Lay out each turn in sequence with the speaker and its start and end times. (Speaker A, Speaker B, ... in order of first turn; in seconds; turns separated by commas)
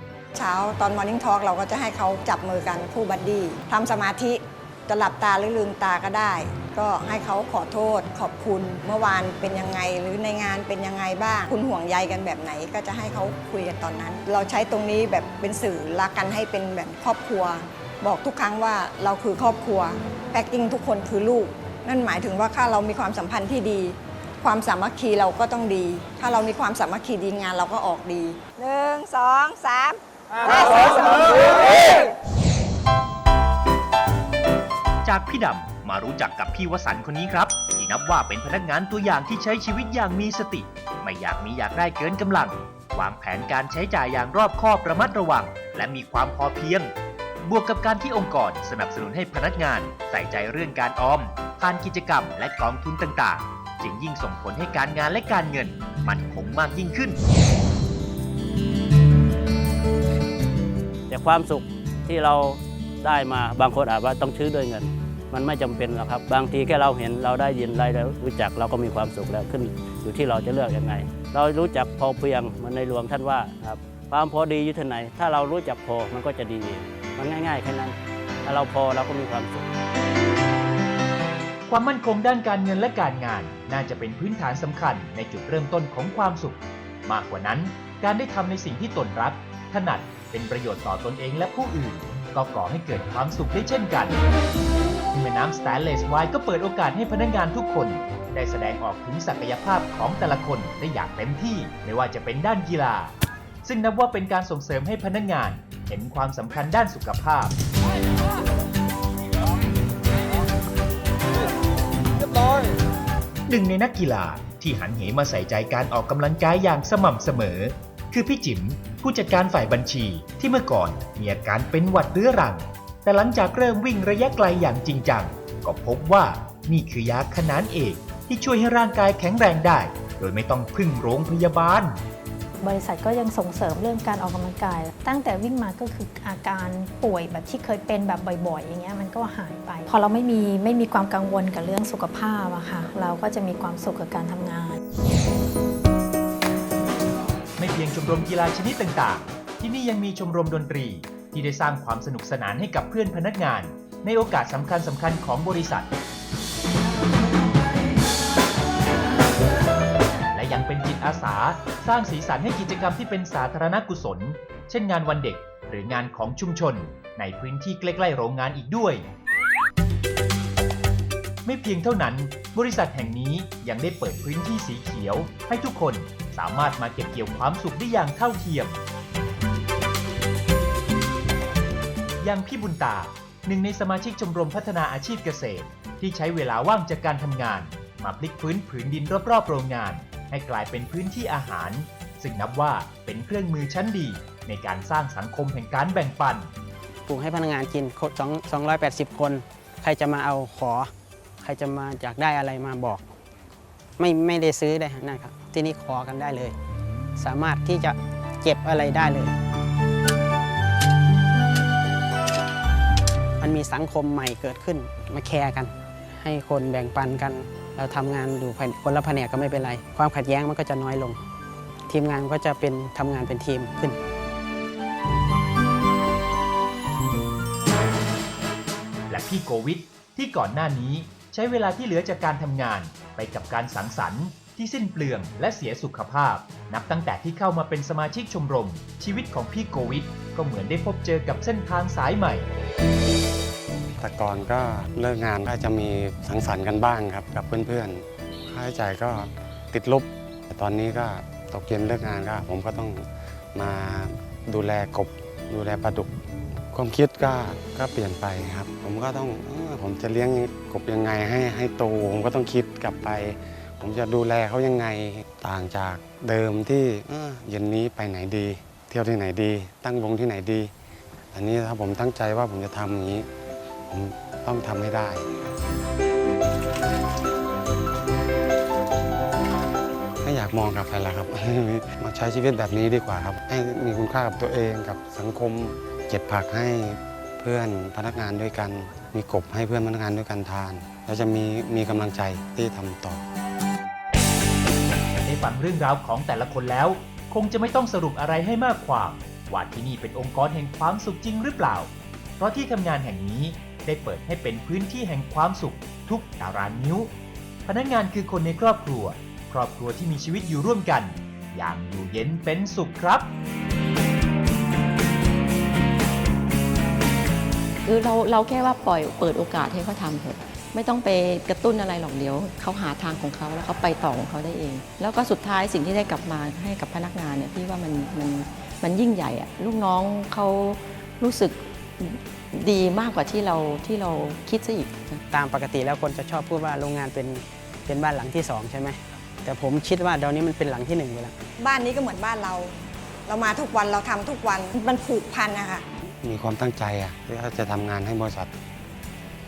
Speaker A: 0.3-32.1, Speaker B: 35.0-57.2, Speaker C: 61.1-79.6, Speaker B: 81.7-94.2, Speaker B: 95.1-103.1, Speaker B: 103.6-107.5, Speaker B: 113.5-132.0, Speaker D: 132.6-144.8, Speaker B: 147.6-155.9, Speaker B: 160.3-169.1, Speaker B: 171.4-178.8, Speaker B: 182.2-196.5, Speaker E: 197.1-203.1, Speaker E: 204.0-206.6, Speaker E: 207.2-209.3, Speaker E: 213.4-221.2, Speaker E: 221.9-224.0, Speaker B: 229.1-242.5, Speaker F: 244.0-256.2, Speaker F: 256.7-270.7, Speaker F: 271.3-273.3, Speaker F: 273.9-275.3, Speaker F: 280.2-293.2, Speaker B: 295.2-307.1, Speaker B: 307.7-313.3, Speaker G: 317.9-335.2, Speaker E: 335.3-341.4, Speaker A: 341.6-342.7, Speaker A: 343.3-345.8, Speaker F: 346.2-348.5